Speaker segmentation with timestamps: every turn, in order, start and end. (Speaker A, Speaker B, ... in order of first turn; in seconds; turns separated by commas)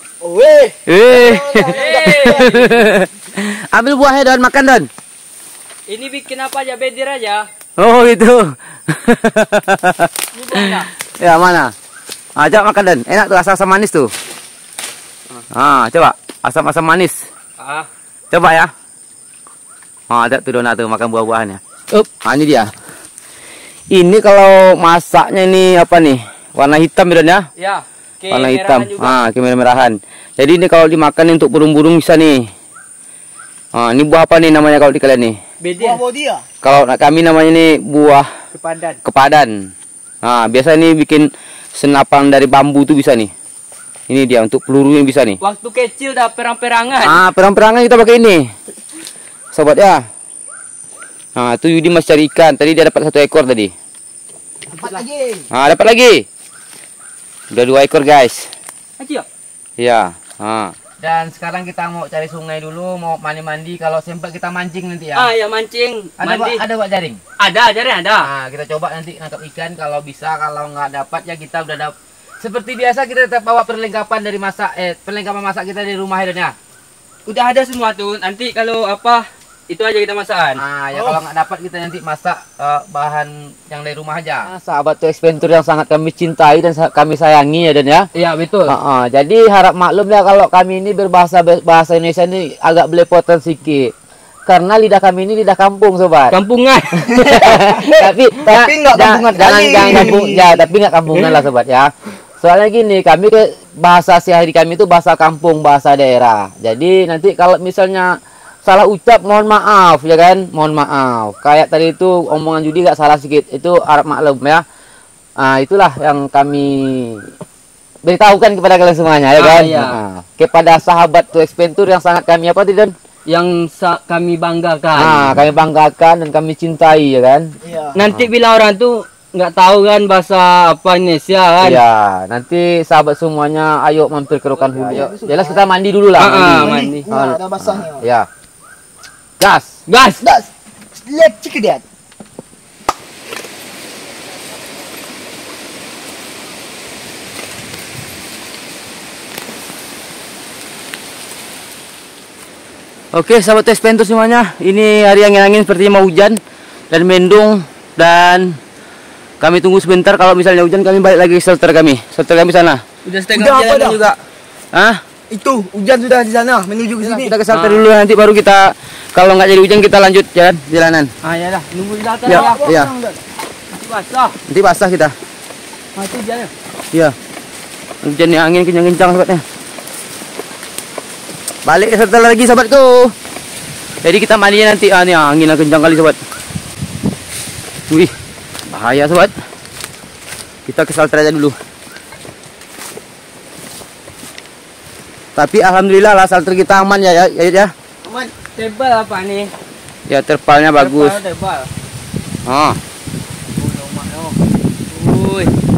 Speaker A: 0.2-2.8, Speaker B: 0.9-4.9, Speaker C: 1.6-2.8, Speaker C: 5.9-7.5, Speaker B: 7.8-11.7, Speaker C: 10.3-10.9, Speaker B: 12.4-14.1, Speaker B: 15.5-17.2, Speaker C: 17.6-17.9, Speaker B: 18.3-18.7, Speaker B: 20.1-21.6, Speaker B: 22.1-22.7, Speaker B: 23.9-27.5, Speaker C: 27.6-29.2, Speaker B: 28.3-32.4, Speaker B: 33.7-35.4, Speaker C: 35.6-36.0, Speaker A: 35.8-36.4, Speaker B: 36.6-38.3, Speaker C: 38.5-39.0, Speaker B: 39.0-39.7, Speaker B: 40.2-43.3, Speaker B: 44.1-45.4, Speaker C: 45.4-47.2, Speaker B: 47.0-48.5, Speaker B: 49.5-50.0, Speaker B: 51.4-53.7, Speaker A: 54.7-55.5, Speaker B: 55.5-56.2, Speaker B: 57.5-58.5, Speaker C: 59.0-59.2, Speaker B: 59.8-65.3, Speaker C: 65.1-66.6, Speaker B: 66.2-67.2, Speaker C: 67.4-68.3, Speaker B: 68.2-76.5, Speaker C: 77.3-80.6, Speaker B: 80.6-88.1, Speaker C: 88.1-88.7, Speaker B: 88.7-93.9, Speaker B: 94.5-96.3, Speaker C: 96.3-97.4, Speaker A: 97.0-100.6, Speaker B: 97.1-114.6, Speaker B: 115.4-117.2, Speaker B: 118.0-122.9, Speaker C: 119.4-120.0, Speaker C: 123.3-125.3, Speaker B: 125.0-127.5, Speaker A: 127.6-128.0, Speaker C: 127.9-131.8, Speaker B: 128.0-128.3, Speaker B: 131.6-138.3, Speaker A: 134.6-135.7, Speaker C: 136.2-137.1, Speaker A: 136.2-138.1, Speaker B: 139.4-139.8, Speaker C: 139.9-140.2, Speaker A: 140.2-141.8, Speaker B: 153.1-156.4, Speaker B: 156.9-158.6, Speaker B: 159.4-162.8, Speaker C: 163.0-164.2, Speaker A: 163.3-164.0, Speaker B: 164.7-165.0, Speaker A: 165.3-167.4, Speaker B: 167.0-171.1, Speaker C: 167.5-167.8, Speaker C: 171.2-172.6, Speaker B: 172.2-172.9, Speaker A: 172.3-173.2, Speaker C: 173.7-174.3, Speaker B: 174.5-175.1, Speaker C: 175.9-176.5, Speaker B: 178.0-179.4, Speaker B: 181.7-183.1, Speaker B: 184.0-186.2, Speaker B: 188.7-189.3, Speaker B: 190.7-191.6, Speaker B: 195.3-197.7, Speaker A: 198.0-198.3, Speaker C: 198.5-199.5, Speaker B: 200.1-201.2, Speaker C: 200.8-201.7, Speaker B: 202.4-202.8, Speaker C: 203.6-204.4, Speaker C: 204.9-205.5